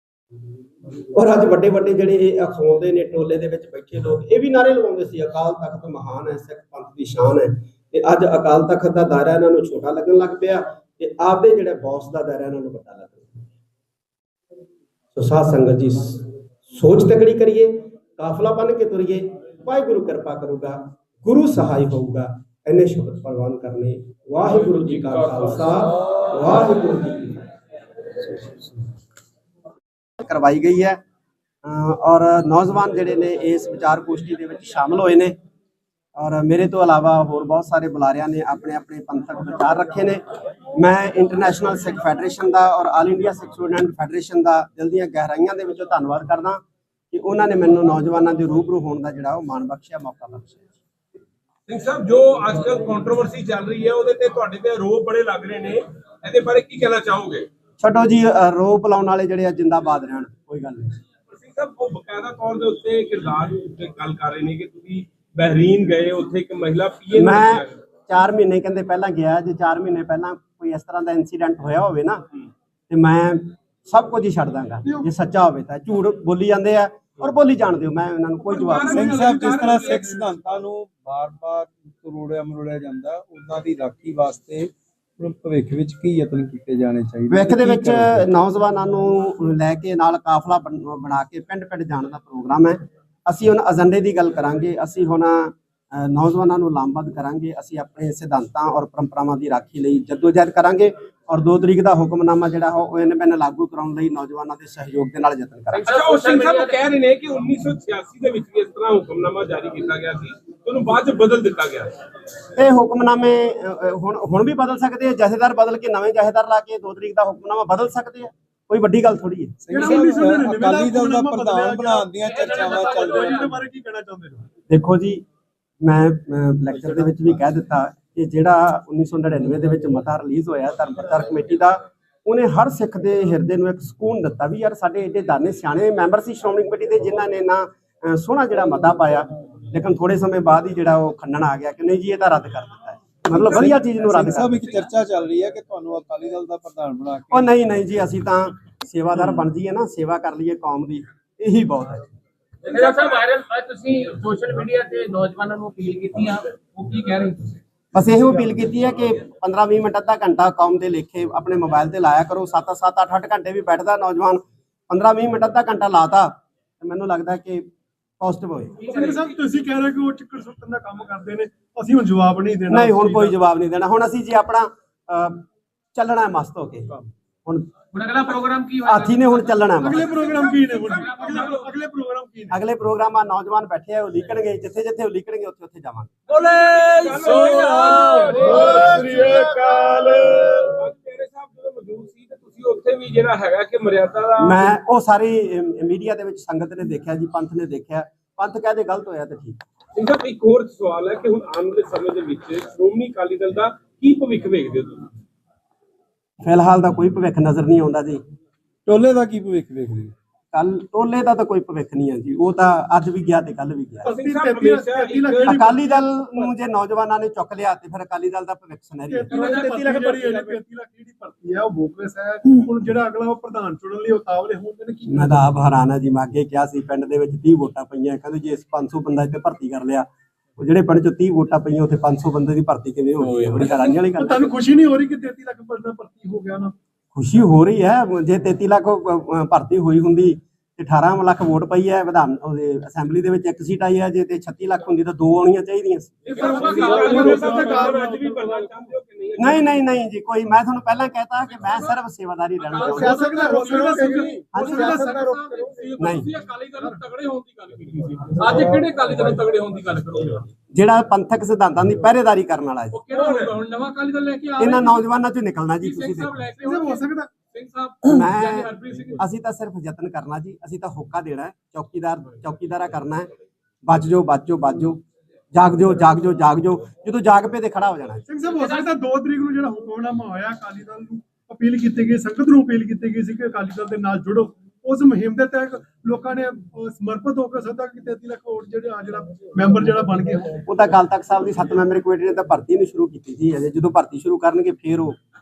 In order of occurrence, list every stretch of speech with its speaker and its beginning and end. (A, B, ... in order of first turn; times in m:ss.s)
0:01.1-0:13.5 A
0:15.1-0:27.4 A
0:30.2-0:31.0 A
0:31.6-0:35.4 A
0:36.2-0:40.2 A
0:40.8-0:50.6 A
0:51.7-0:57.5 B
0:57.8-1:01.0 A
1:01.3-1:07.8 B
1:07.1-1:12.2 A
1:12.9-1:19.0 A
1:18.4-1:20.1 B
1:18.7-1:20.3 C
1:18.9-1:28.2 D
1:27.3-1:45.9 A
1:45.7-1:46.8 E
1:45.8-1:51.9 B
1:52.6-1:59.5 A
1:59.6-2:03.5 D
1:59.7-2:04.4 C
2:02.2-2:03.6 E
2:04.7-2:05.2 A
2:05.8-2:24.6 A
2:23.3-2:27.5 D
2:27.3-2:32.1 A
2:32.6-2:37.6 E
2:37.9-2:47.7 A
2:48.2-2:48.8 A
2:48.8-2:49.4 E
2:48.8-2:53.4 C
2:48.9-2:49.2 B
2:52.7-2:57.7 A
2:57.9-3:01.6 E
2:58.8-3:00.2 A
2:59.8-3:02.6 C
3:00.1-3:01.7 B
3:02.5-3:06.1 A
3:06.3-3:08.8 E
3:06.3-3:10.7 D
3:06.4-3:14.7 B
3:08.5-3:09.1 C
3:14.4-3:19.6 A
3:19.9-3:25.1 B
3:26.4-3:28.2 A
3:28.9-3:30.1 D
3:30.5-3:34.1 A
3:34.0-3:35.7 B
3:34.0-3:36.4 C
3:35.4-3:39.5 A
3:39.1-3:45.5 C
3:39.3-3:40.6 B
3:45.1-3:54.6 A
3:53.5-3:56.7 C
3:57.1-4:06.6 A
4:06.2-4:08.8 C
4:06.2-4:09.7 B
4:06.3-4:08.0 E
4:09.4-4:13.3 A
4:12.8-4:14.4 B
4:12.8-4:14.4 E
4:12.8-4:15.3 C
4:14.5-4:15.1 A
4:14.5-4:15.8 D
4:15.6-4:19.4 B
4:16.0-4:16.3 A
4:18.2-4:20.4 E
4:18.4-4:18.8 C
4:20.7-4:23.0 A
4:22.9-4:25.0 E
4:23.0-4:23.6 B
4:24.6-4:26.5 A
4:25.8-4:29.2 E
4:26.6-4:27.3 C
4:28.0-4:33.3 A
4:33.8-4:35.0 A
4:35.5-4:38.2 A
4:38.3-4:50.6 C
4:38.4-4:38.9 E
4:50.6-4:55.2 A